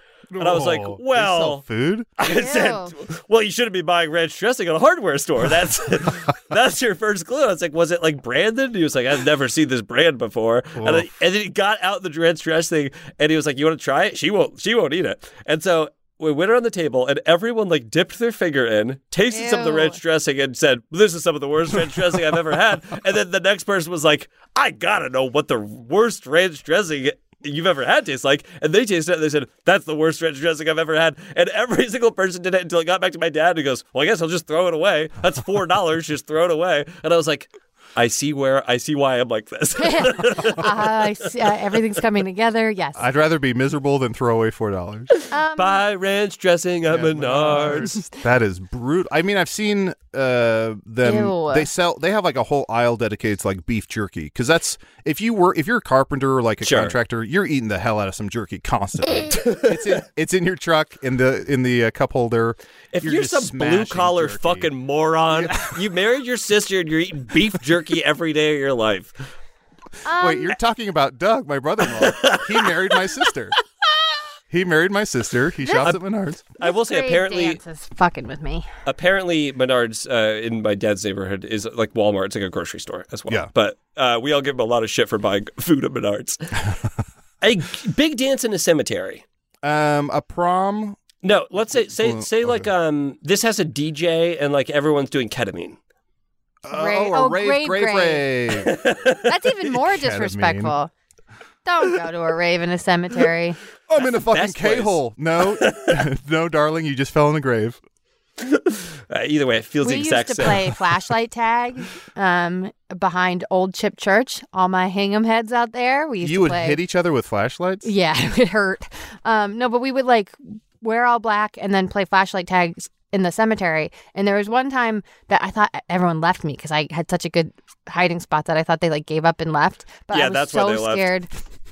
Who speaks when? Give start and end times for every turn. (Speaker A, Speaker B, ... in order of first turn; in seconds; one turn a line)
Speaker A: 0.3-2.1
Speaker B: 0.4-1.6
Speaker B: 2.2-41.3
Speaker C: 2.2-2.9
Speaker A: 10.8-11.1
Speaker C: 19.3-20.0
Speaker C: 39.8-43.0
Speaker A: 43.0-45.1
Speaker C: 45.3-45.8
Speaker B: 45.5-48.0
Speaker A: 46.9-64.7
Speaker C: 51.0-51.7
Speaker B: 56.6-57.0
Speaker B: 59.4-59.9
Speaker B: 62.9-69.2
Speaker A: 65.3-65.8
Speaker C: 70.0-70.5
Speaker A: 70.1-73.6
Speaker B: 71.9-72.8
Speaker A: 74.5-76.4
Speaker C: 75.6-75.9
Speaker B: 76.6-77.6
Speaker C: 76.6-78.7
Speaker B: 78.9-86.6
Speaker B: 87.4-89.2
Speaker A: 89.6-91.0
Speaker B: 91.2-95.8
Speaker A: 92.0-92.7
Speaker A: 96.6-98.8
Speaker C: 96.7-98.4
Speaker B: 98.7-99.2
Speaker C: 99.2-100.9
Speaker A: 99.6-100.8
Speaker C: 101.7-103.6
Speaker A: 103.9-107.8
Speaker B: 103.9-106.0
Speaker B: 108.4-110.8
Speaker C: 109.8-116.8
Speaker A: 116.2-117.9
Speaker C: 117.8-131.3
Speaker B: 130.1-131.1